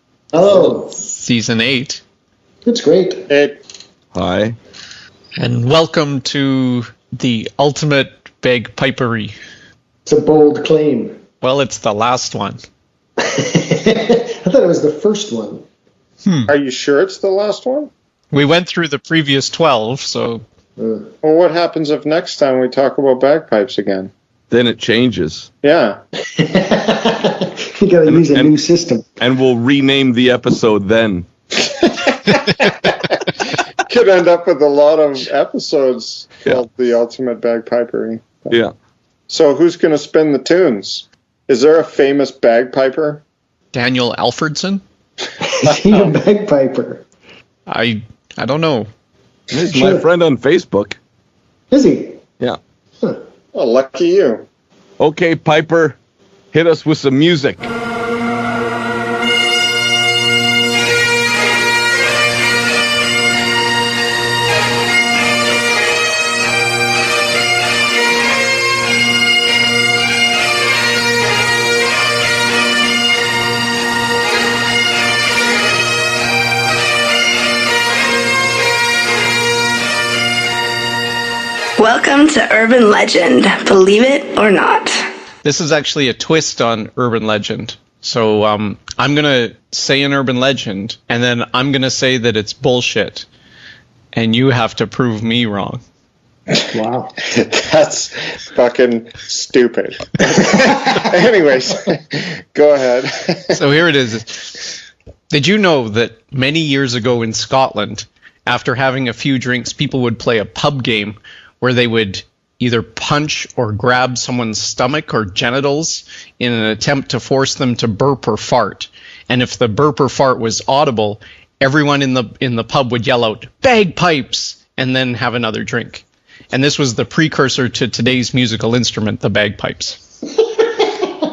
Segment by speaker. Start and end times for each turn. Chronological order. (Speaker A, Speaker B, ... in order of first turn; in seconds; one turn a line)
Speaker A: 0.3-0.9
Speaker B: 0.9-2.0
Speaker A: 2.6-3.3
Speaker C: 3.3-3.6
Speaker D: 4.1-4.6
Speaker B: 5.4-9.3
Speaker A: 10.1-11.2
Speaker B: 11.4-12.6
Speaker A: 13.2-15.6
Speaker B: 16.2-16.5
Speaker C: 16.5-17.9
Speaker B: 18.3-20.4
Speaker A: 20.8-21.1
Speaker C: 21.2-24.1
Speaker D: 24.5-25.5
Speaker C: 25.6-26.0
Speaker A: 26.4-29.1
Speaker D: 28.1-28.6
Speaker D: 29.2-31.3
Speaker C: 31.8-33.3
Speaker C: 33.9-38.5
Speaker C: 39.3-43.2
Speaker B: 43.7-44.8
Speaker A: 45.4-47.0
Speaker B: 47.7-48.9
Speaker D: 49.5-51.0
Speaker A: 49.7-50.1
Speaker A: 51.7-52.2
Speaker C: 53.5-54.5
Speaker D: 55.0-56.0
Speaker D: 56.5-57.7
Speaker E: 81.8-85.0
Speaker B: 85.4-93.3
Speaker B: 94.1-95.8
Speaker A: 96.7-97.1
Speaker C: 97.3-103.5
Speaker B: 103.5-104.6
Speaker B: 105.3-130.0